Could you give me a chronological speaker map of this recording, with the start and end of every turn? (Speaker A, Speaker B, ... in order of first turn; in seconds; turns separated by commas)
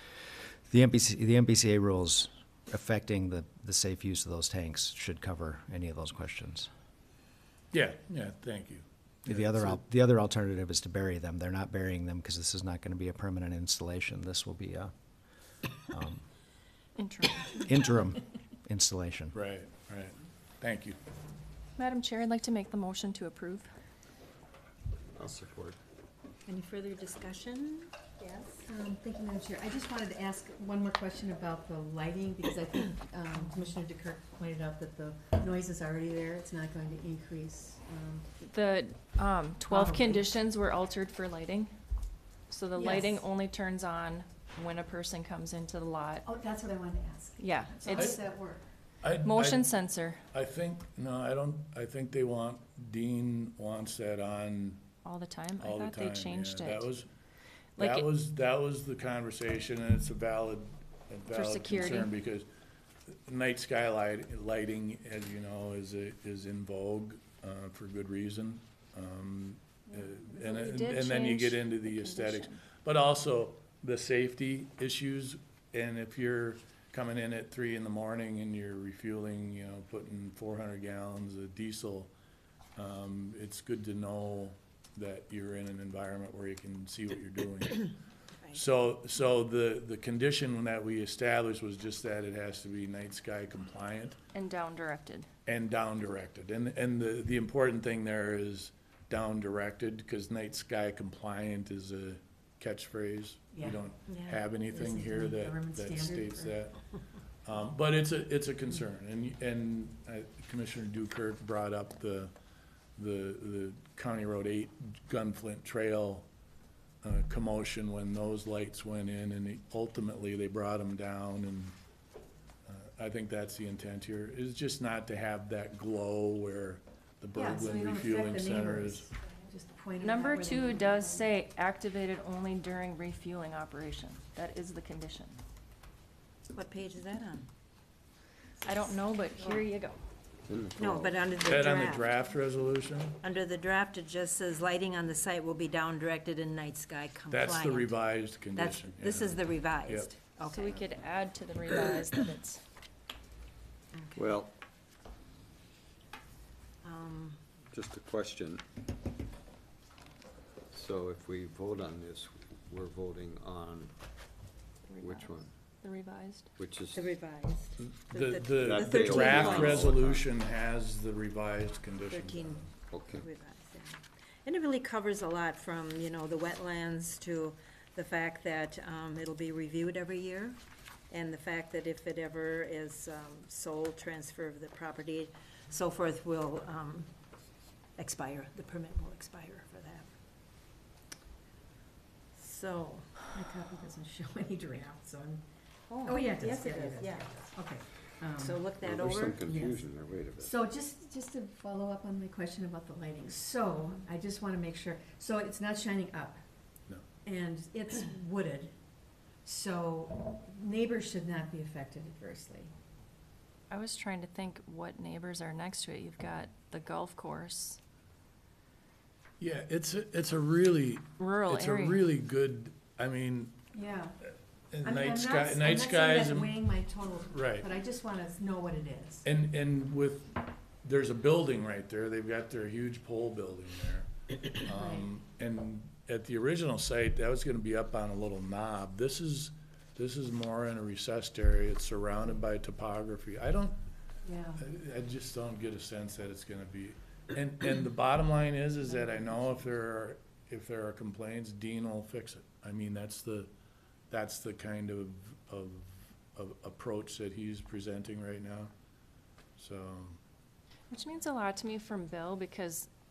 Speaker A: 0.7-6.7, Speaker B: 7.7-9.8, Speaker A: 9.2-14.9, Speaker A: 15.9-16.2, Speaker C: 16.9-17.7, Speaker A: 17.6-19.4, Speaker B: 19.3-21.0, Speaker C: 21.8-23.7, Speaker D: 25.1-25.8, Speaker E: 26.5-28.6, Speaker F: 28.6-38.2, Speaker C: 38.4-41.7, Speaker F: 39.7-40.2, Speaker C: 42.5-46.2, Speaker F: 42.8-43.2, Speaker F: 46.2-48.6, Speaker C: 47.4-48.2, Speaker B: 47.9-48.2, Speaker B: 49.0-49.7, Speaker C: 49.2-50.2, Speaker B: 50.3-54.9, Speaker C: 55.0-56.9, Speaker B: 55.6-57.1, Speaker C: 57.8-58.1, Speaker B: 57.8-62.5, Speaker C: 61.3-62.1, Speaker B: 63.1-82.1, Speaker C: 70.3-72.6, Speaker B: 82.8-87.9, Speaker B: 88.5-94.2, Speaker C: 94.3-95.3, Speaker B: 95.5-106.8, Speaker F: 103.5-103.8, Speaker E: 104.1-104.4, Speaker F: 104.5-106.6, Speaker B: 107.4-112.3, Speaker B: 113.0-116.3, Speaker B: 117.0-121.7, Speaker B: 122.7-129.1, Speaker F: 127.3-131.2, Speaker C: 130.0-135.4, Speaker E: 136.5-137.5, Speaker C: 138.6-140.0, Speaker D: 140.5-141.3, Speaker E: 140.8-142.2, Speaker B: 141.4-143.2, Speaker E: 143.2-148.0, Speaker B: 147.3-150.1, Speaker E: 148.5-150.8, Speaker C: 150.4-152.6, Speaker D: 154.1-154.5, Speaker E: 156.8-157.4, Speaker D: 157.7-158.6, Speaker D: 160.7-163.9, Speaker C: 164.9-165.3, Speaker D: 165.0-165.5, Speaker C: 165.8-166.5, Speaker D: 166.6-167.1, Speaker E: 166.9-170.0, Speaker B: 167.8-172.7, Speaker D: 168.6-170.2, Speaker E: 172.1-180.6, Speaker D: 172.9-173.2, Speaker E: 181.1-187.1, Speaker E: 188.0-190.1, Speaker E: 192.3-193.1, Speaker F: 193.3-195.4, Speaker E: 195.9-197.4, Speaker F: 196.0-198.7, Speaker E: 198.3-199.4, Speaker D: 198.8-200.5, Speaker F: 199.4-199.8, Speaker F: 200.4-206.4, Speaker F: 207.2-208.7, Speaker F: 209.4-212.7, Speaker C: 213.7-217.8, Speaker B: 219.4-223.6, Speaker C: 221.2-222.1, Speaker F: 223.7-224.2, Speaker B: 224.7-226.6, Speaker F: 224.8-229.3, Speaker B: 227.2-227.7, Speaker B: 229.2-243.8, Speaker F: 234.7-235.1, Speaker F: 244.2-244.6, Speaker B: 244.6-253.5, Speaker B: 254.1-258.7, Speaker B: 259.6-260.2, Speaker C: 260.9-262.9